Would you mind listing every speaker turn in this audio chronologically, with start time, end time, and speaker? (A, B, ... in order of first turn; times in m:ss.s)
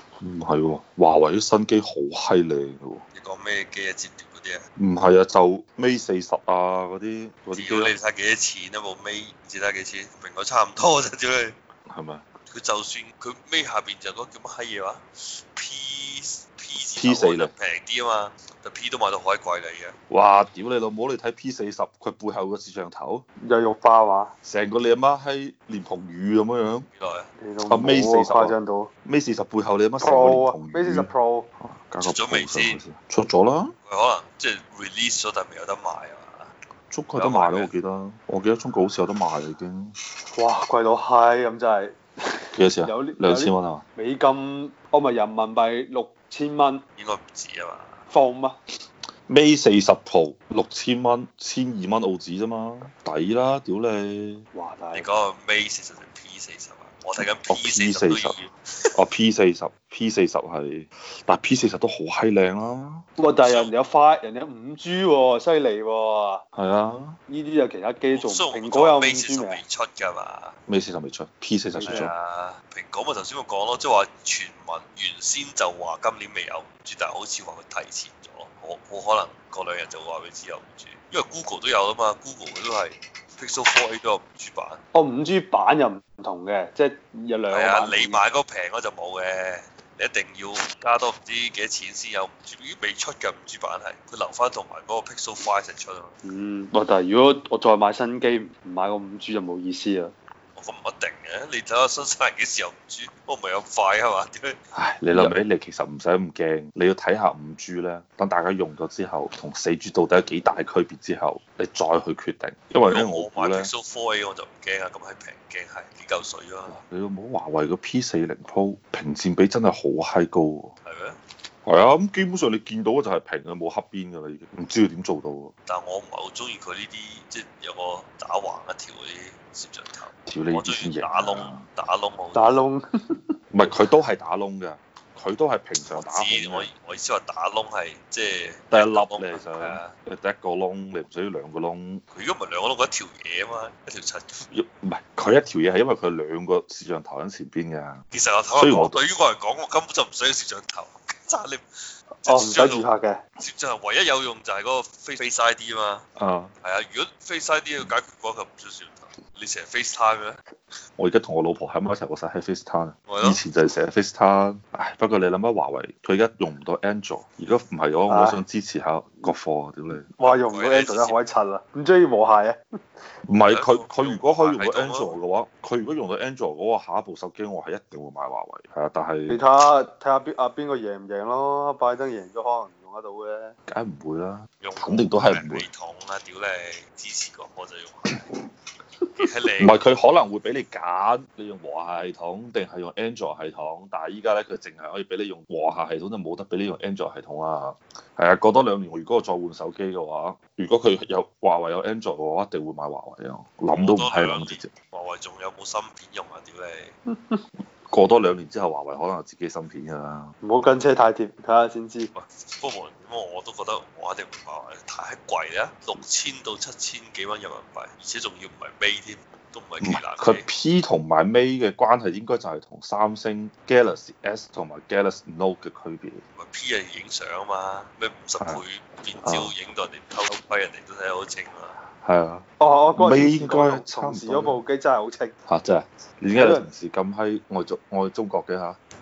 0:00.2-0:03.0 A
0:03.1-0:04.6 B
0:04.8-0:07.9 A
0:07.5-0:11.6 B
0:11.9-0:12.2 A
0:12.5-0:20.0 B
0:17.0-0:17.5 A
0:20.1-0:23.2 A
0:23.4-0:24.3 C
0:24.4-0:26.9 A
0:26.9-0:27.3 B
0:27.4-0:28.9 C
0:27.7-0:33.7 A
0:30.0-0:31.5 C
0:32.0-0:32.8 B
0:33.8-0:36.5 B
0:36.9-0:39.9 A
0:37.2-0:37.7 B
0:40.3-0:46.8 C
0:42.5-0:43.8 A
0:47.0-0:48.0 B
0:48.1-0:48.6 C
0:49.3-0:54.4 A
0:54.5-0:55.1 C
0:54.9-0:58.5 B
0:57.2-0:58.4 A
0:58.9-1:03.0 A
1:03.2-1:06.4 C
1:03.4-1:03.7 B
1:06.5-1:07.2 A
1:07.3-1:09.6 C
1:08.1-1:10.5 B
1:10.7-1:12.1 A
1:11.8-1:12.1 C
1:11.9-1:24.8 B
1:24.9-1:28.2 C
1:27.5-1:36.1 B
1:36.2-1:40.1 C
1:40.5-1:44.6 B
1:44.7-1:53.7 A
1:52.9-1:56.8 B
1:56.7-2:00.7 A
2:00.8-2:01.2 B
2:01.6-2:05.5 A
2:05.6-2:12.5 B
2:10.2-2:11.6 A
2:12.3-2:13.2 C
2:13.5-2:16.7 A
2:15.8-2:19.9 B
2:18.7-2:22.0 A
2:22.1-2:24.4 B
2:24.5-2:28.0 A
2:28.1-2:32.8 B
2:28.6-2:29.0 A
2:32.2-2:33.2 C
2:33.4-2:36.0 B
2:36.2-2:36.5 A
2:36.6-2:40.4 B
2:41.0-2:50.1 A
2:43.1-2:43.4 B
2:48.1-2:48.4 C
2:50.1-2:52.6 C
2:50.2-2:51.2 B
2:53.2-2:59.4 A
2:53.5-2:55.2 B
2:59.3-3:03.6 C
3:03.7-3:05.7 A
3:04.6-3:08.2 B
3:09.2-3:09.8 B
3:09.6-3:24.7 A
3:23.7-3:26.9 B
3:27.1-3:27.4 C
3:27.9-3:30.3 A
3:30.4-3:32.1 C
3:32.1-3:40.4 B
3:39.8-3:46.2 A
3:46.3-3:51.7 B
3:49.2-3:49.5 A
3:52.0-3:54.6 A
3:52.6-3:55.3 C
3:55.5-3:58.8 A
3:56.3-3:56.7 C